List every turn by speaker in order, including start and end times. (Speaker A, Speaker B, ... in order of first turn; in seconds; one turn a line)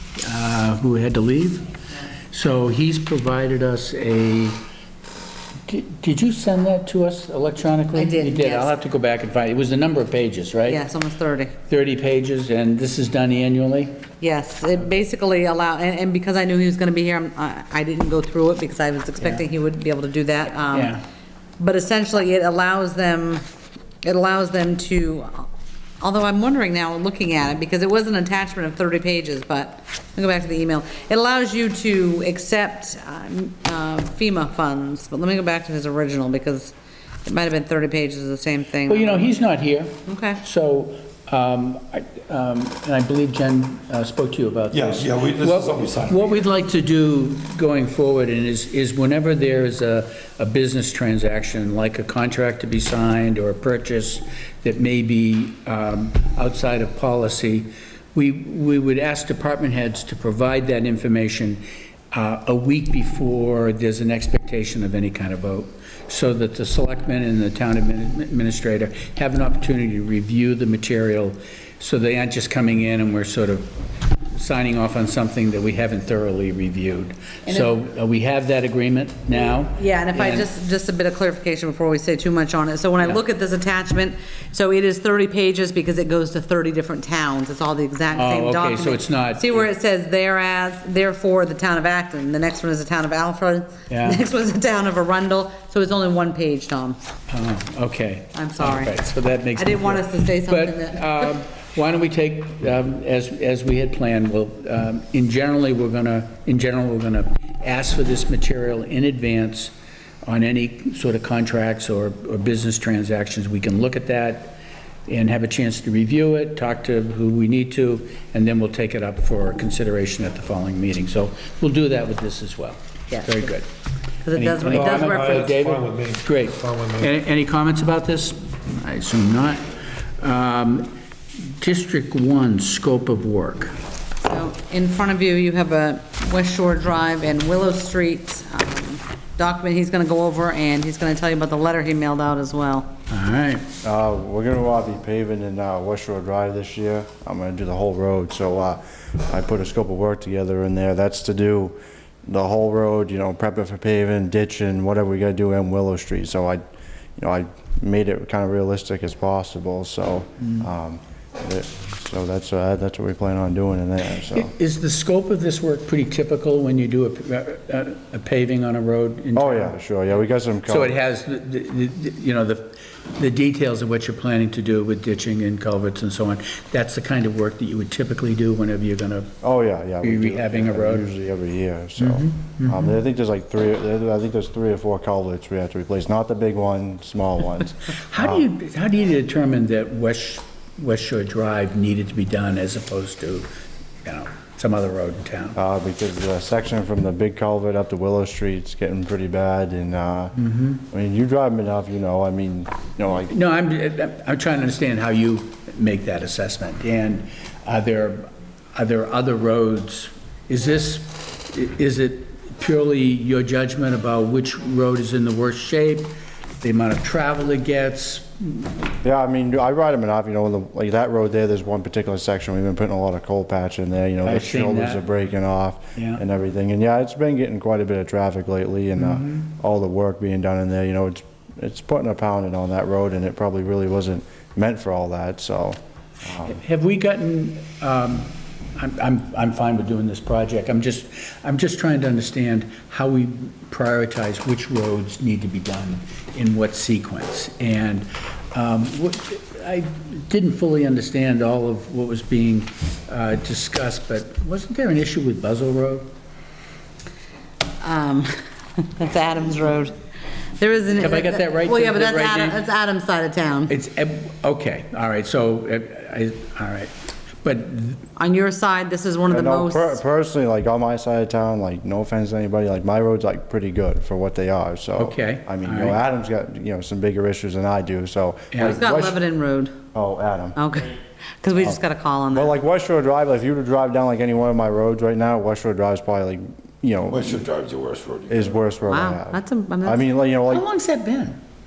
Speaker A: 0.2-1.7
Speaker A: 2.3-4.6
Speaker A: 5.7-10.8
Speaker B: 7.9-8.7
Speaker B: 10.7-11.5
Speaker A: 11.7-14.0
Speaker B: 14.2-20.9
Speaker A: 20.7-21.0
Speaker B: 21.6-23.4
Speaker B: 24.0-25.5
Speaker B: 26.0-36.7
Speaker B: 37.2-39.3
Speaker A: 38.9-73.7
Speaker B: 40.1-40.4
Speaker C: 44.7-46.2
Speaker A: 74.3-80.5
Speaker B: 79.7-97.0
Speaker A: 88.1-89.7
Speaker A: 93.9-94.2
Speaker A: 97.3-109.7
Speaker B: 98.3-99.0
Speaker B: 99.5-101.1
Speaker A: 110.2-114.6
Speaker A: 115.1-123.7
Speaker B: 123.1-123.4
Speaker B: 124.2-125.6
Speaker A: 124.3-129.6
Speaker C: 124.6-127.1
Speaker A: 130.2-130.9
Speaker A: 131.6-133.8
Speaker B: 134.2-142.9
Speaker A: 143.1-143.7
Speaker D: 143.8-151.8
Speaker D: 152.3-156.6
Speaker D: 157.2-164.5
Speaker A: 160.4-160.7
Speaker A: 164.3-169.8
Speaker D: 169.3-171.0
Speaker A: 170.7-179.3
Speaker D: 179.4-188.4
Speaker A: 180.0-181.1
Speaker A: 182.0-182.9
Speaker A: 187.9-193.5
Speaker A: 194.0-195.6
Speaker D: 195.6-203.3
Speaker A: 200.4-200.8
Speaker A: 203.3-218.8
Speaker D: 219.0-236.6
Speaker A: 224.2-225.0
Speaker A: 225.9-226.2
Speaker A: 229.0-229.5
Speaker A: 236.4-256.1
Speaker B: 257.8-259.9
Speaker B: 260.6-263.7
Speaker A: 261.0-262.6
Speaker A: 263.7-266.9
Speaker A: 267.4-268.1
Speaker B: 268.2-270.0
Speaker D: 269.3-279.2
Speaker A: 275.0-276.0
Speaker A: 278.5-278.8
Speaker B: 278.6-279.8
Speaker D: 279.9-280.6
Speaker B: 280.6-282.5
Speaker D: 282.3-287.4
Speaker C: 287.1-288.6
Speaker D: 288.3-290.7
Speaker B: 288.9-290.0
Speaker A: 290.5-291.4